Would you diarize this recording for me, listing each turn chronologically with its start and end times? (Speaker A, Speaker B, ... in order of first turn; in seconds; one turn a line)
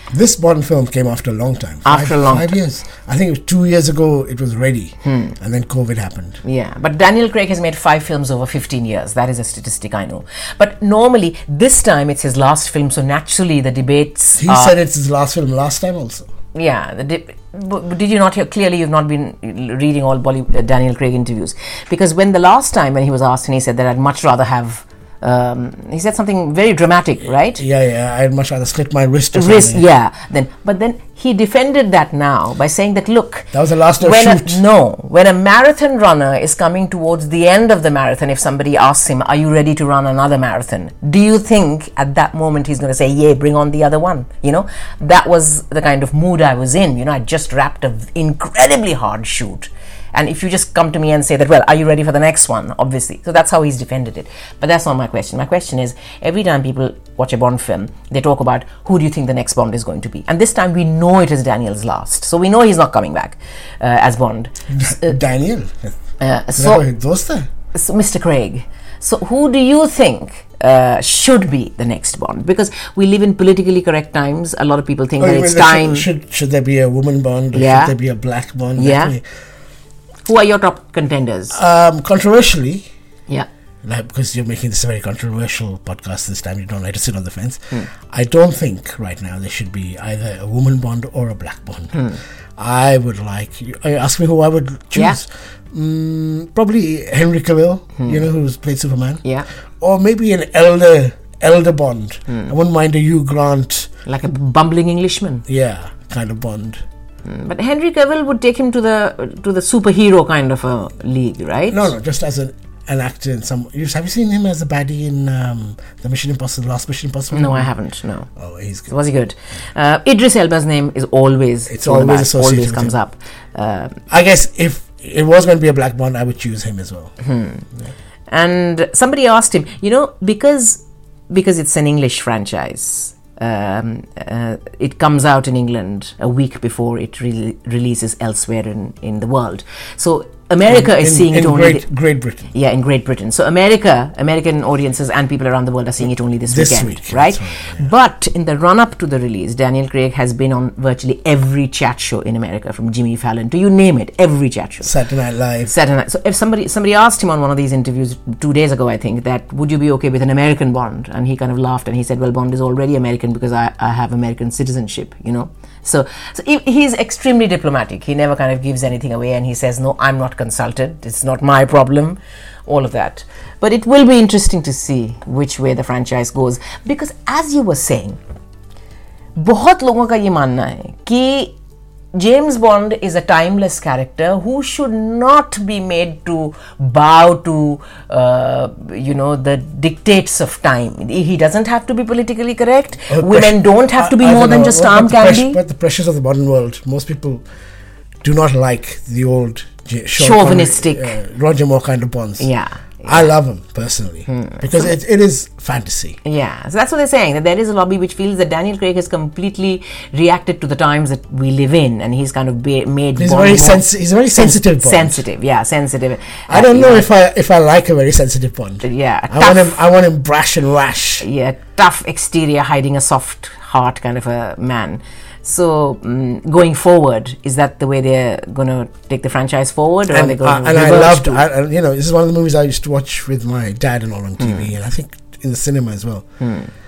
Speaker A: 0.1-6.4
Speaker B: 1.8-2.5
Speaker B: 5.0-5.3
Speaker B: 6.4-14.8
Speaker A: 14.4-16.2
Speaker B: 16.5-27.6
Speaker A: 27.6-29.8
Speaker B: 29.3-65.1
Speaker A: 33.5-34.6
Speaker A: 64.7-65.9
Speaker B: 66.2-66.8
Speaker A: 66.5-67.5
Speaker B: 67.7-76.1
Speaker A: 75.2-79.2
Speaker B: 77.5-77.9
Speaker B: 78.8-79.1
Speaker B: 80.2-81.6
Speaker A: 81.5-82.9
Speaker A: 83.8-92.0
Speaker B: 91.9-92.2
Speaker A: 92.6-99.2
Speaker A: 99.8-103.9
Speaker B: 104.0-105.4
Speaker A: 105.5-106.8
Speaker B: 107.2-111.9
Speaker A: 111.7-117.7
Speaker B: 117.3-118.3
Speaker A: 118.4-118.9
Speaker B: 118.9-124.0
Speaker A: 121.7-122.9
Speaker A: 124.1-127.1
Speaker B: 127.2-127.6
Speaker B: 128.3-141.8
Speaker A: 140.7-142.5
Speaker B: 142.5-154.9
Speaker A: 146.5-147.9
Speaker A: 154.8-155.7
Speaker B: 155.7-178.2
Speaker B: 179.3-181.5
Speaker B: 182.1-195.6
Speaker A: 193.1-197.4
Speaker A: 198.2-202.5
Speaker B: 200.2-201.2
Speaker B: 202.4-203.3
Speaker A: 203.0-206.2
Speaker B: 204.3-204.6
Speaker B: 206.2-213.8
Speaker A: 213.2-215.2
Speaker B: 214.3-217.1
Speaker A: 216.5-221.2
Speaker B: 218.8-219.8
Speaker B: 221.2-231.4
Speaker A: 230.1-236.2
Speaker B: 234.4-234.7
Speaker B: 236.4-236.7